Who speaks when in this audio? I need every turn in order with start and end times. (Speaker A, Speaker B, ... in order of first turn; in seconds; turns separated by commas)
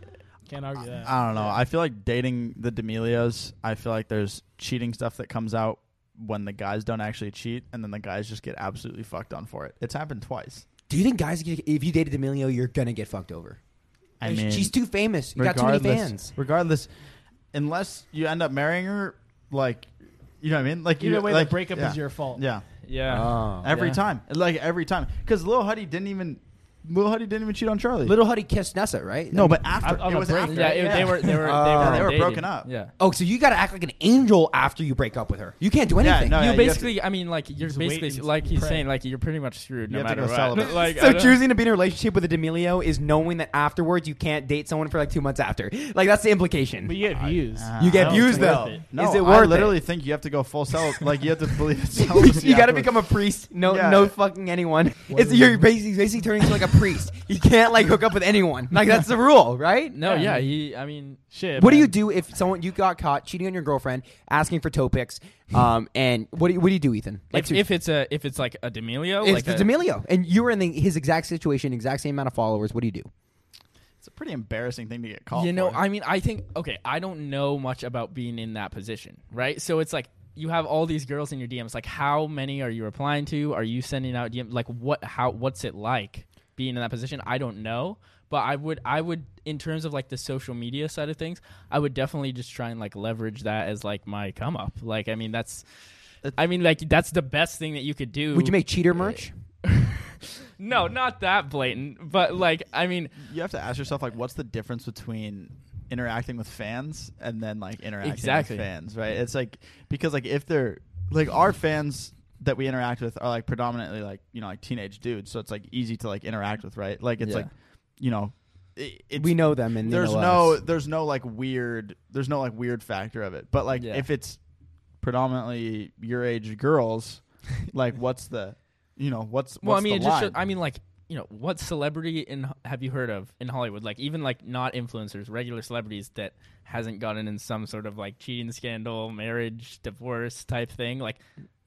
Speaker A: 0.5-1.6, Speaker B: 1.0-10.7, Speaker C: 10.9-13.6, Speaker B: 14.2-14.7, Speaker C: 14.2-16.3, Speaker B: 15.3-16.9, Speaker B: 17.5-19.9, Speaker B: 20.4-28.1, Speaker A: 21.0-22.4, Speaker D: 22.8-24.0, Speaker C: 23.1-23.8, Speaker C: 28.0-30.0, Speaker B: 29.3-32.7, Speaker A: 29.8-31.3, Speaker D: 30.5-32.9, Speaker C: 31.2-32.2, Speaker C: 33.0-36.8, Speaker B: 36.0-37.0, Speaker D: 36.3-41.4, Speaker A: 37.6-38.9, Speaker B: 39.9-40.8, Speaker C: 40.6-47.0, Speaker A: 46.9-48.8, Speaker B: 47.2-53.0, Speaker C: 47.8-49.8, Speaker C: 52.0-60.0, Speaker B: 53.6-54.1, Speaker A: 55.1-55.6, Speaker D: 59.9-61.2, Speaker A: 60.0-60.5, Speaker A: 61.3-61.9, Speaker C: 61.6-67.7, Speaker D: 67.3-69.7, Speaker C: 69.2-73.1, Speaker B: 74.0-75.8, Speaker D: 75.3-95.7, Speaker D: 96.3-103.1, Speaker C: 98.3-99.3, Speaker B: 103.2-124.4, Speaker D: 108.0-108.7, Speaker D: 117.2-117.5, Speaker C: 119.2-120.6, Speaker D: 123.7-124.1, Speaker B: 125.0-130.4, Speaker D: 129.6-141.2